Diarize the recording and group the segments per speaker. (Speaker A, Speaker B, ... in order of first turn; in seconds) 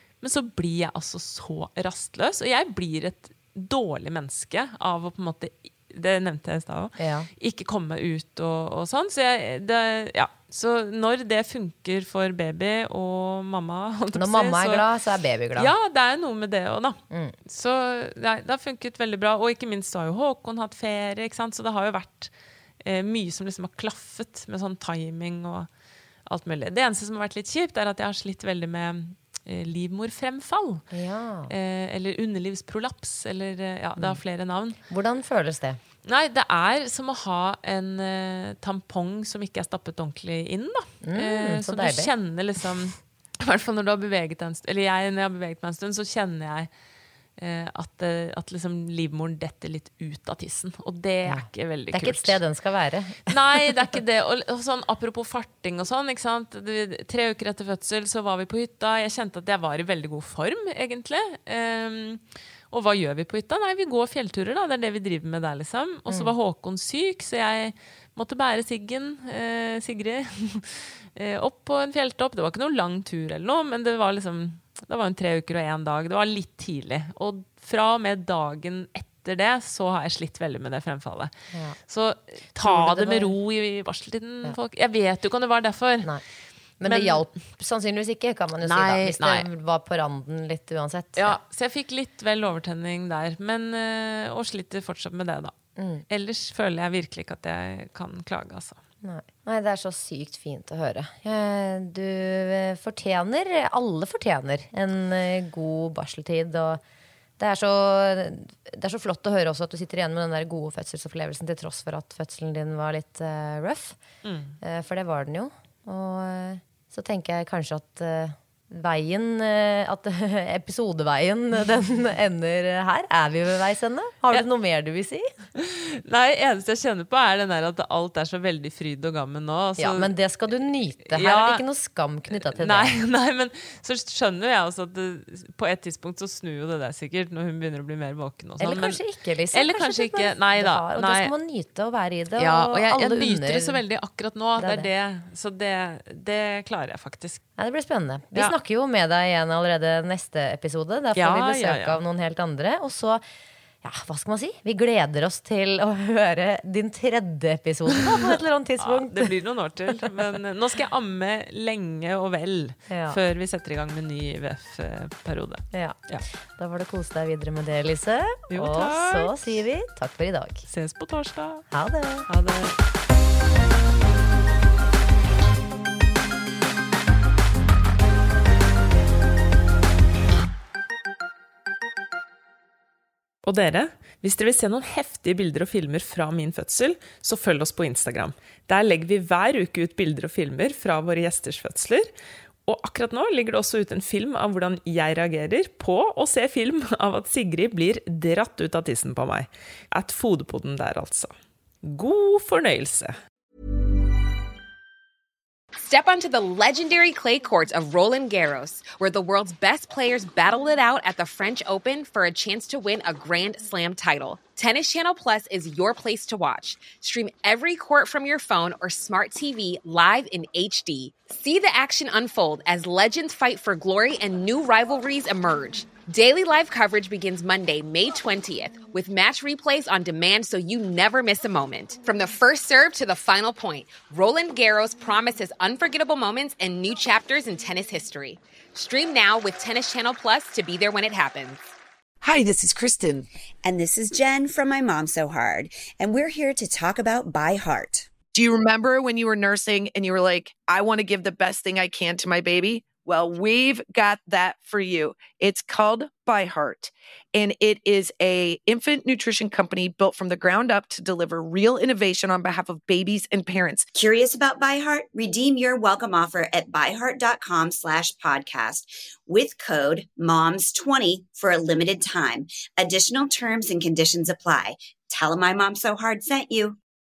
Speaker A: 0.2-14.8, 15.6-25.7, 26.3-30.8, 31.5-34.8, 36.0-46.7, 47.4-52.4, 53.3-81.3, 81.9-86.2, 86.8-87.3, 88.6-89.5, 91.2-95.5, 96.1-98.8, 114.2-114.5, 125.6-130.1, 131.1-131.6, 132.3-139.0, 139.5-141.3, 142.4-147.4, 151.2-152.0, 158.0-166.2, 168.5-169.3, 170.7-171.7, 172.3-172.8, 183.4-192.1, 192.7-203.2
Speaker B: 7.0-7.3, 14.1-15.7, 17.1-17.4, 30.9-31.5, 34.9-35.8, 41.0-42.1, 51.3-53.7, 66.1-66.3, 81.5-81.8, 82.6-83.4, 86.8-91.4, 95.8-96.0, 99.0-106.8, 107.4-114.0, 114.6-125.3, 129.8-132.9, 138.6-143.8, 144.6-144.9, 147.6-153.2, 153.8-159.3, 162.9-163.2, 165.7-170.6, 171.7-172.3
Speaker C: 205.8-241.6
Speaker D: 243.6-248.1, 263.9-276.8
Speaker E: 248.3-263.9